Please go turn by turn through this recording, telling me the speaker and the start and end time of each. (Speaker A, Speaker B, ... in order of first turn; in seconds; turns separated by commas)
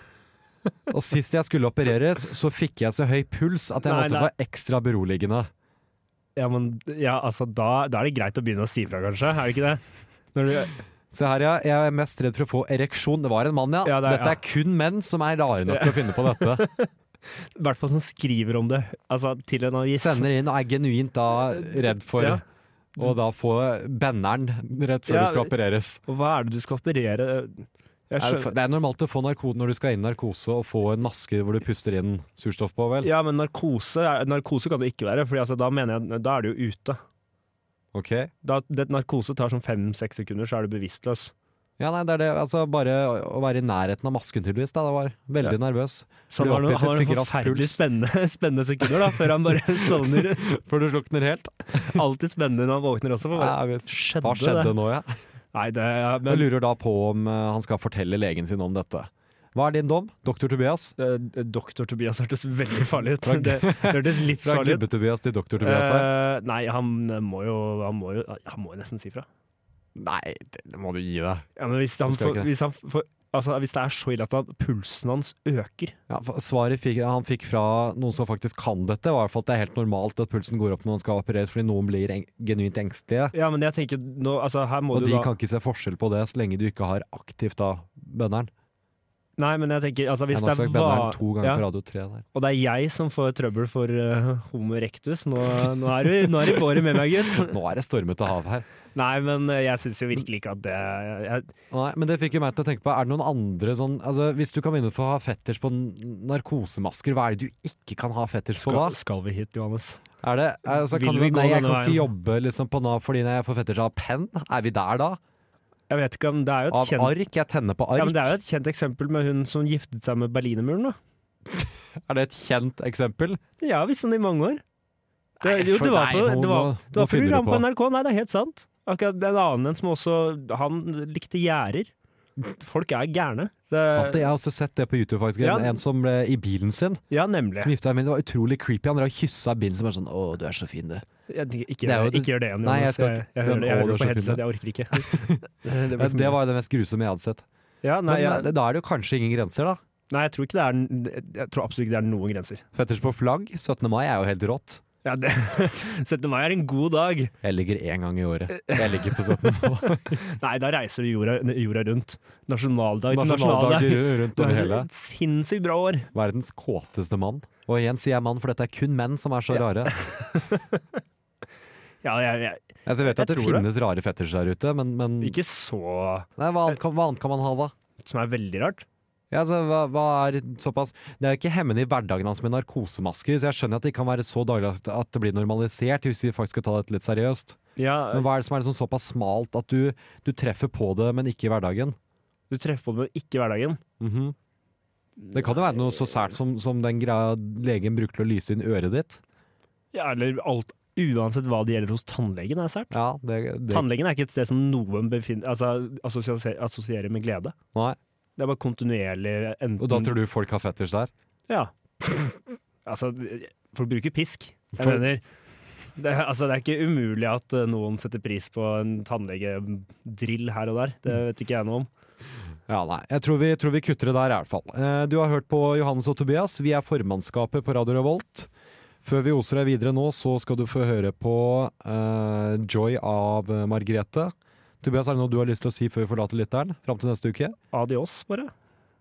Speaker A: 0.9-5.5, Speaker B: 3.8-4.3, Speaker B: 6.3-9.8, Speaker B: 10.3-10.8, Speaker A: 11.1-16.7, Speaker B: 13.8-14.4, Speaker B: 15.7-20.3, Speaker A: 19.9-22.4, Speaker B: 21.9-22.4, Speaker A: 23.0-26.0, Speaker B: 25.1-25.5, Speaker B: 26.1-28.5, Speaker A: 28.2-33.1, Speaker B: 33.0-37.0, Speaker A: 37.9-38.3, Speaker B: 38.4-41.3, Speaker A: 41.8-47.8, Speaker B: 46.3-50.5, Speaker A: 48.9-52.0, Speaker B: 51.8-54.7, Speaker A: 53.3-55.1, Speaker B: 55.5-56.5, Speaker A: 56.2-60.9, Speaker B: 61.0-64.9, Speaker A: 63.2-66.1, Speaker B: 65.6-69.2, Speaker A: 70.0-71.5, Speaker B: 71.6-76.0, Speaker A: 72.1-72.5, Speaker A: 76.1-83.3, Speaker B: 83.3-85.3, Speaker A: 84.9-88.5, Speaker B: 89.4-91.6, Speaker A: 90.3-92.2, Speaker B: 92.3-97.6, Speaker A: 97.2-98.7, Speaker B: 98.9-101.5, Speaker A: 101.7-109.0, Speaker B: 108.6-110.0, Speaker A: 110.2-115.2, Speaker B: 110.7-112.1, Speaker B: 115.9-117.1, Speaker A: 116.7-118.3, Speaker B: 118.0-121.0, Speaker A: 121.5-123.4, Speaker B: 123.6-124.6, Speaker A: 125.4-127.7, Speaker B: 125.4-134.3, Speaker A: 133.9-137.0, Speaker B: 135.4-135.8, Speaker B: 137.1-137.7, Speaker A: 137.6-141.1, Speaker B: 141.3-146.4, Speaker A: 141.8-147.4, Speaker B: 147.8-148.5, Speaker A: 148.1-149.8, Speaker B: 150.1-152.6, Speaker A: 152.7-154.8, Speaker B: 155.0-157.3, Speaker A: 157.4-160.2, Speaker B: 158.5-166.1, Speaker A: 163.1-164.9, Speaker A: 166.1-169.9, Speaker B: 169.5-170.8, Speaker B: 172.0-173.7, Speaker A: 172.8-175.4, Speaker B: 175.2-176.3, Speaker A: 176.4-177.7, Speaker B: 178.0-178.8, Speaker A: 179.3-187.6, Speaker B: 187.8-188.3, Speaker A: 188.1-191.9, Speaker B: 192.5-193.8, Speaker A: 194.0-194.3, Speaker B: 195.2-195.9, Speaker A: 195.3-199.2, Speaker B: 199.9-202.9, Speaker A: 202.9-203.9, Speaker B: 203.7-207.5, Speaker B: 208.4-210.1, Speaker A: 209.8-211.1, Speaker B: 211.5-212.3, Speaker B: 212.8-215.2, Speaker A: 214.8-215.0, Speaker B: 215.9-221.9, Speaker A: 222.7-228.5, Speaker A: 229.0-237.6, Speaker B: 237.7-238.5